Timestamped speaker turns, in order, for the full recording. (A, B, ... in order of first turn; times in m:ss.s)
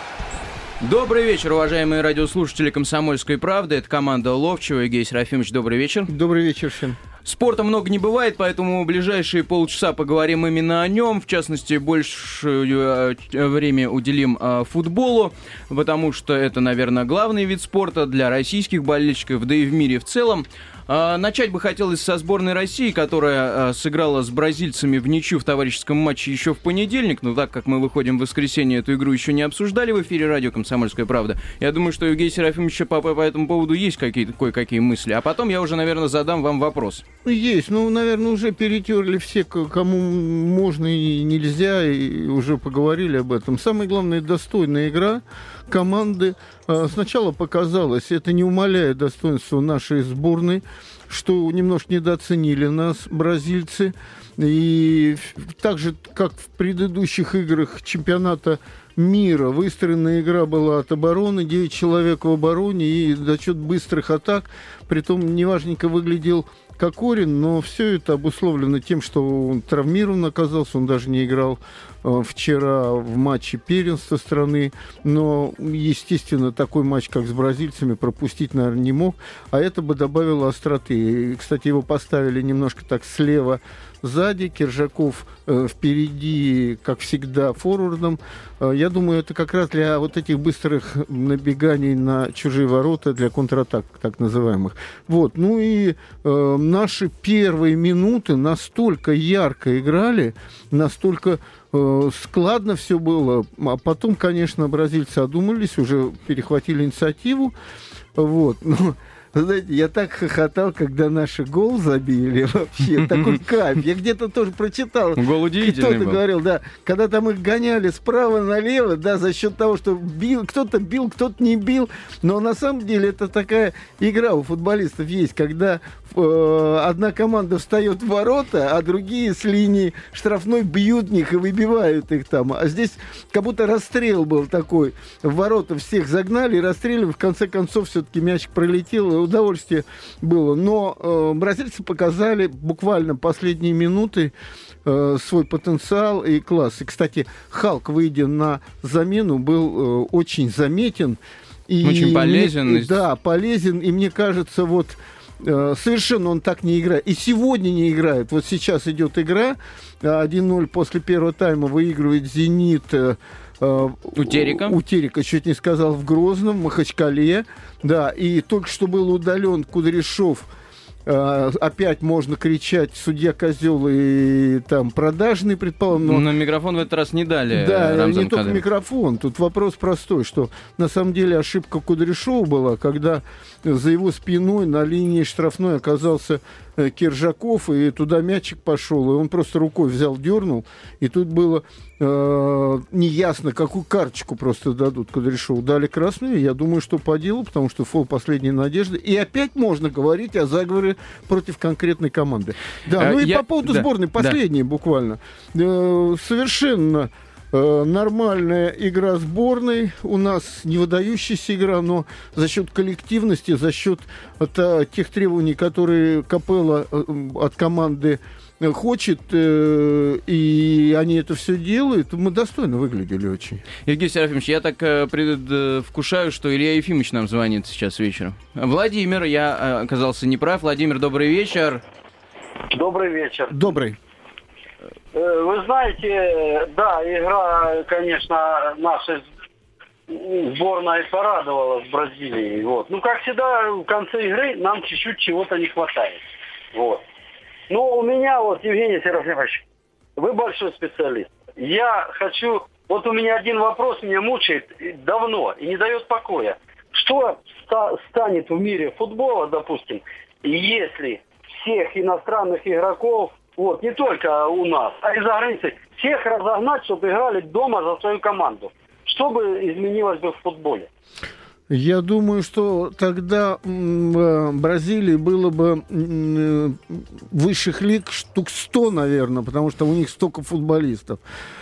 0:00.8-0:06.1 A
0:06.1-0:07.0 B
0:07.2-0:37.0 A
0:37.2-1:47.5 B
1:48.1-2:24.3 B
1:55.2-1:56.2 A
2:24.8-2:50.5 B
2:31.8-2:33.0 A
2:44.2-2:44.8 A
2:51.1-2:56.3 B
2:55.9-2:58.6 A
2:57.5-3:43.6 B
3:23.0-3:24.4 A
3:43.9-3:51.8 A
3:52.7-3:53.6 C
3:53.5-3:54.0 B
3:55.1-3:59.2 C
4:00.1-4:07.0 C
4:07.7-4:09.6 C
4:10.2-4:30.9 C
4:31.7-4:41.2 B